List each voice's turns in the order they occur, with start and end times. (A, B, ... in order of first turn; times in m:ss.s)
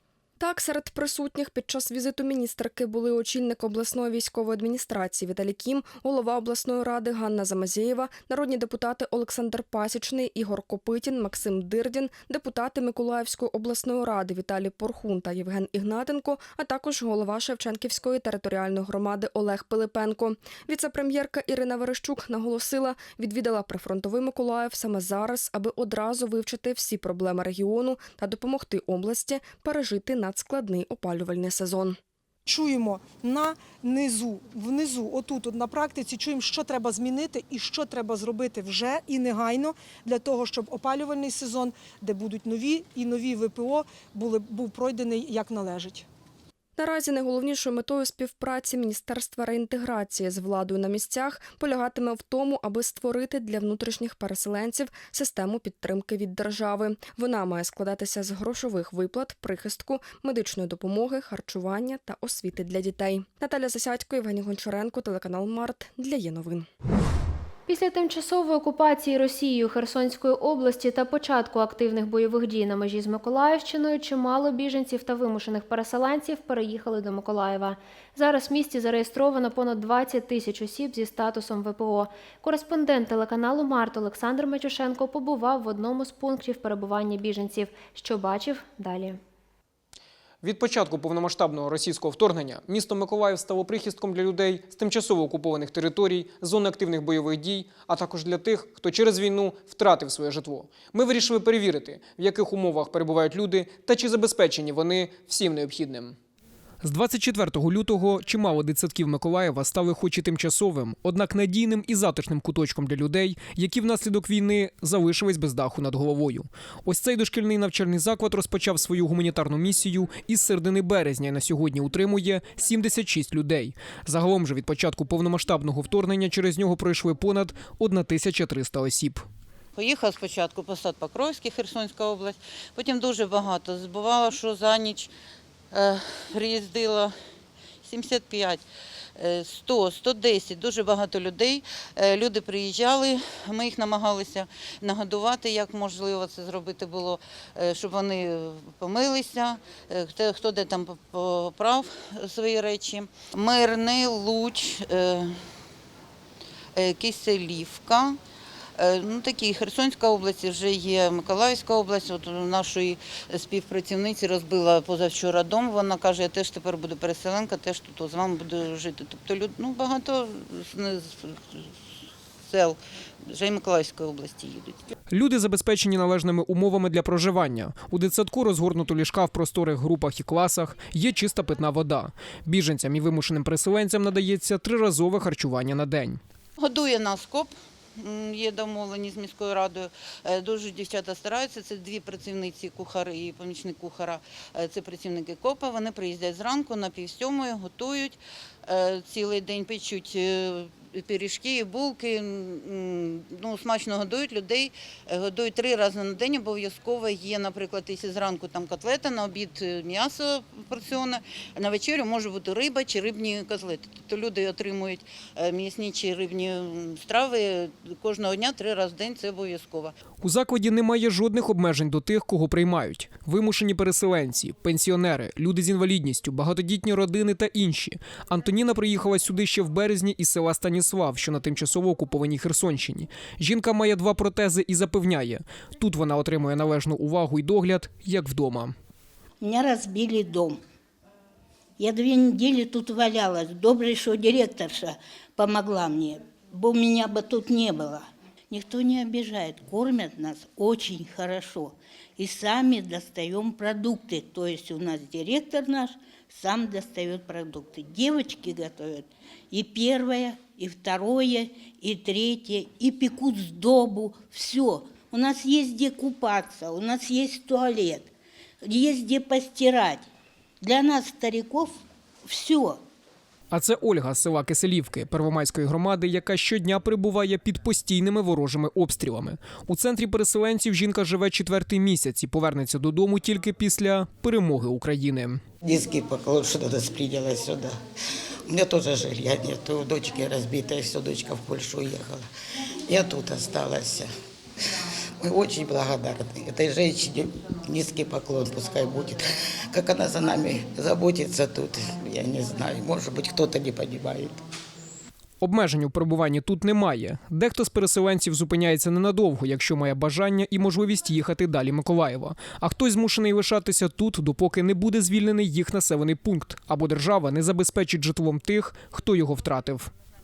0:00.4-0:32.0 A
0:32.5-0:46.0 B
0:46.8-1:06.7 A
1:07.7-1:29.2 C
1:30.4-1:46.2 D
1:46.8-2:09.2 D
2:09.8-2:15.1 E
2:15.7-2:17.2 E
2:17.8-2:18.6 E
2:19.2-2:35.5 E
2:36.8-2:38.2 E
2:38.8-2:54.9 E
2:55.1-3:06.2 D
3:06.6-3:40.0 E
3:40.2-3:58.7 D
3:59.4-4:00.6 F
4:01.8-4:28.1 F
4:28.6-4:30.1 F
4:30.6-4:32.8 F
4:33.5-4:45.4 D
4:45.6-4:47.8 G
4:48.5-4:52.2 G
4:52.9-4:54.1 G
4:55.2-5:04.4 G
5:05.4-5:19.9 D